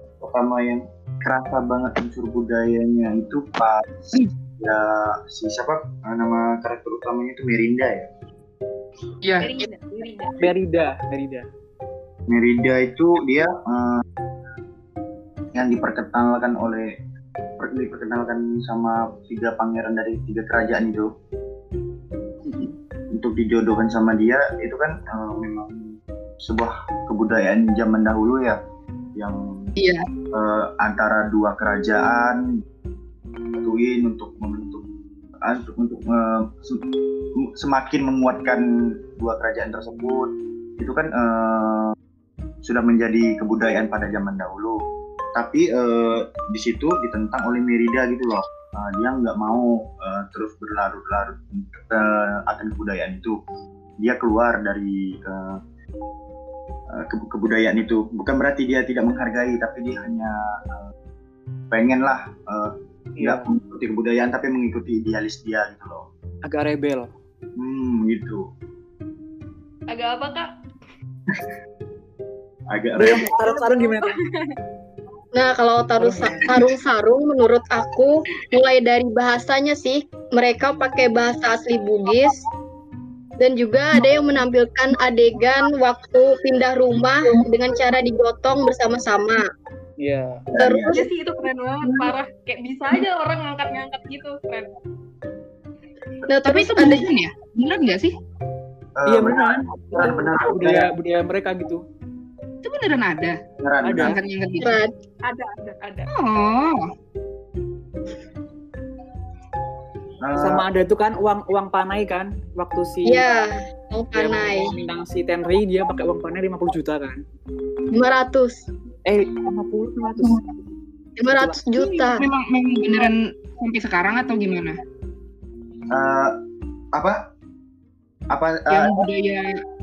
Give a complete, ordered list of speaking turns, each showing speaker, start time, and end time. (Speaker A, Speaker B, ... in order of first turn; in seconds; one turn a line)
Speaker A: 0.2-8.1
Speaker B: 9.2-9.6
Speaker C: 9.4-10.3
Speaker D: 10.4-11.5
Speaker A: 12.3-14.0
Speaker A: 15.5-16.9
Speaker A: 17.6-21.1
Speaker D: 22.4-22.7
Speaker A: 23.1-28.6
Speaker A: 29.1-29.7
Speaker B: 29.8-30.0
Speaker A: 30.3-32.4
Speaker A: 33.5-34.9
Speaker A: 35.4-36.8
Speaker A: 37.3-42.0
Speaker A: 42.6-44.8
Speaker A: 45.3-53.4
Speaker A: 54.0-55.6
Speaker A: 56.9-60.9
Speaker A: 61.7-66.1
Speaker D: 63.1-63.5
Speaker D: 66.4-67.1
Speaker A: 67.6-68.4
Speaker C: 69.9-70.5
Speaker A: 72.7-73.3
Speaker D: 73.0-74.2
Speaker C: 73.3-74.5
Speaker E: 75.3-82.4
Speaker D: 76.0-76.6
Speaker E: 83.4-89.4
Speaker D: 90.0-90.5
Speaker A: 90.5-91.0
Speaker E: 90.6-91.0
Speaker C: 90.9-94.8
Speaker E: 96.3-97.0
Speaker B: 96.3-98.1
Speaker A: 99.0-100.9
Speaker D: 99.0-101.8
Speaker B: 102.6-103.4
Speaker A: 103.6-104.2
Speaker D: 103.8-104.2
Speaker B: 104.0-104.8
Speaker E: 104.6-104.9
Speaker C: 105.2-106.1
Speaker B: 106.1-106.8
Speaker A: 110.2-110.7
Speaker D: 110.3-113.3
Speaker E: 113.0-114.7
Speaker D: 114.1-117.2
Speaker E: 117.9-118.6
Speaker D: 119.0-120.4
Speaker E: 121.2-122.2
Speaker D: 121.3-121.6
Speaker B: 121.7-124.8
Speaker A: 125.9-126.4
Speaker A: 126.9-127.2
Speaker A: 128.3-128.9
Speaker B: 128.7-129.5